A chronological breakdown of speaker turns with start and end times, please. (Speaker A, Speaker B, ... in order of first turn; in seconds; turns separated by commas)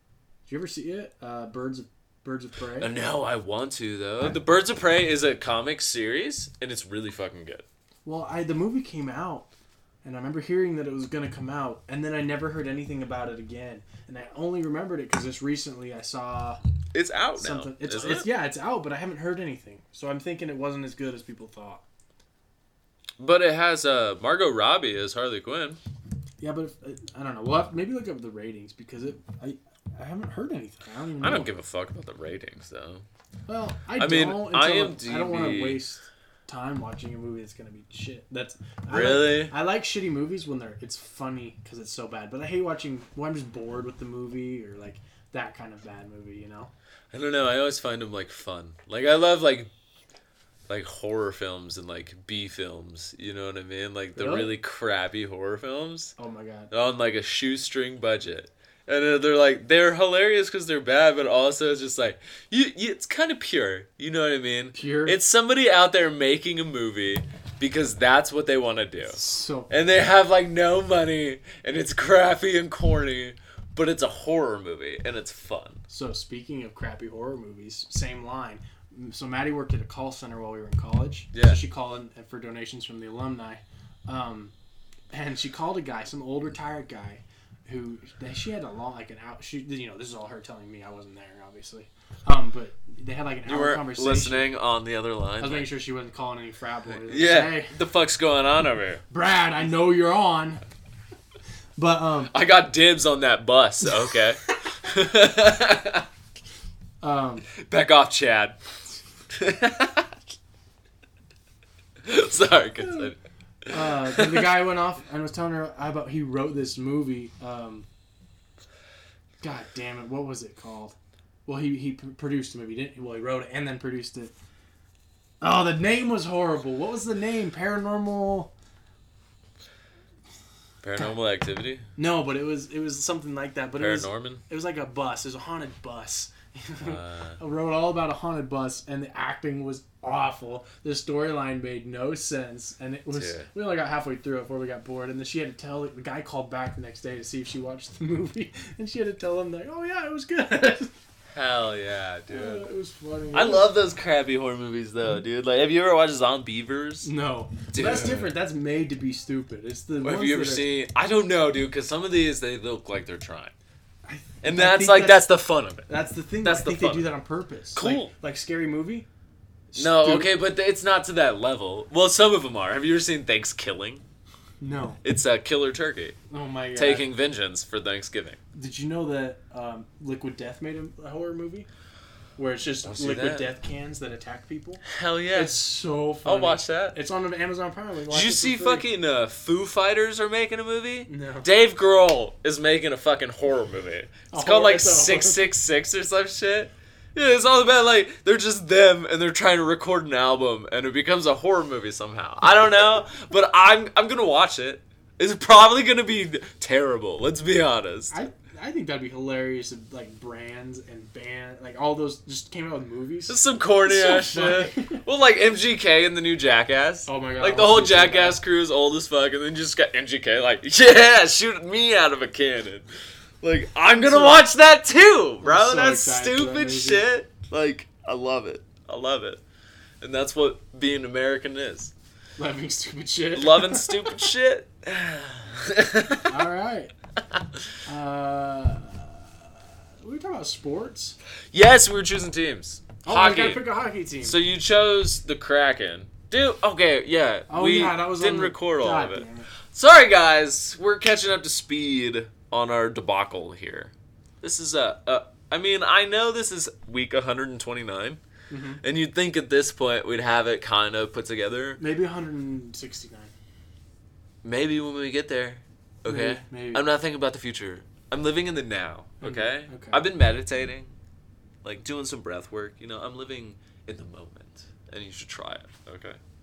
Speaker A: 0.5-2.9, Speaker B: 2.8-7.6, Speaker A: 8.0-9.5, Speaker A: 10.0-16.6, Speaker B: 16.9-18.3, Speaker A: 17.4-21.8, Speaker B: 23.2-25.8, Speaker A: 26.4-31.5, Speaker B: 31.2-33.0, Speaker A: 33.5-46.7, Speaker B: 34.0-35.8, Speaker B: 38.9-39.5, Speaker B: 47.1-49.7, Speaker B: 50.7-56.1, Speaker A: 54.1-54.5, Speaker A: 56.2-56.7, Speaker B: 56.7-75.8, Speaker A: 64.7-65.2, Speaker A: 69.1-69.7, Speaker A: 75.9-84.5, Speaker B: 81.3-81.6, Speaker A: 85.1-94.5, Speaker B: 93.5-95.7, Speaker A: 95.4-97.8, Speaker B: 96.9-99.0, Speaker A: 99.1-100.6, Speaker A: 101.8-102.3, Speaker B: 102.3-106.1, Speaker A: 107.0-107.5, Speaker B: 107.6-108.6, Speaker B: 109.3-110.1, Speaker B: 112.0-114.6, Speaker A: 112.8-113.1, Speaker A: 113.7-117.9, Speaker A: 119.4-124.3, Speaker A: 125.4-128.5, Speaker B: 130.8-131.9, Speaker A: 131.9-150.9, Speaker B: 133.8-134.4, Speaker B: 136.8-137.4, Speaker B: 143.1-143.5, Speaker B: 151.3-152.7, Speaker A: 152.3-153.7, Speaker B: 153.3-157.1, Speaker A: 157.0-160.7, Speaker B: 157.7-158.3, Speaker B: 160.0-163.5, Speaker A: 164.0-165.3, Speaker B: 164.4-165.9, Speaker A: 165.9-169.1, Speaker B: 166.4-167.1, Speaker B: 167.7-168.1, Speaker A: 169.7-170.3, Speaker B: 169.8-174.0, Speaker A: 174.6-175.0, Speaker B: 175.0-176.2, Speaker A: 176.3-177.1, Speaker B: 176.7-178.4, Speaker A: 178.5-181.7, Speaker A: 182.4-188.8, Speaker B: 182.8-183.5, Speaker B: 184.8-185.6, Speaker B: 186.2-187.0, Speaker B: 188.1-208.2, Speaker A: 191.1-191.5, Speaker A: 194.3-195.5, Speaker A: 208.1-215.0, Speaker B: 213.3-222.9, Speaker A: 217.1-218.4, Speaker B: 223.4-229.4, Speaker A: 223.9-224.4, Speaker A: 225.4-227.1, Speaker B: 230.0-231.9, Speaker A: 232.4-234.2, Speaker B: 233.3-236.4, Speaker A: 236.2-236.9, Speaker B: 237.3-237.6, Speaker A: 237.8-241.2, Speaker B: 241.5-243.7, Speaker A: 243.0-244.4, Speaker B: 244.2-258.2, Speaker A: 247.5-249.5, Speaker A: 258.5-258.8, Speaker B: 258.8-261.8, Speaker A: 261.8-263.3, Speaker B: 264.4-270.9, Speaker A: 266.1-266.8, Speaker A: 269.2-270.0, Speaker B: 271.6-276.2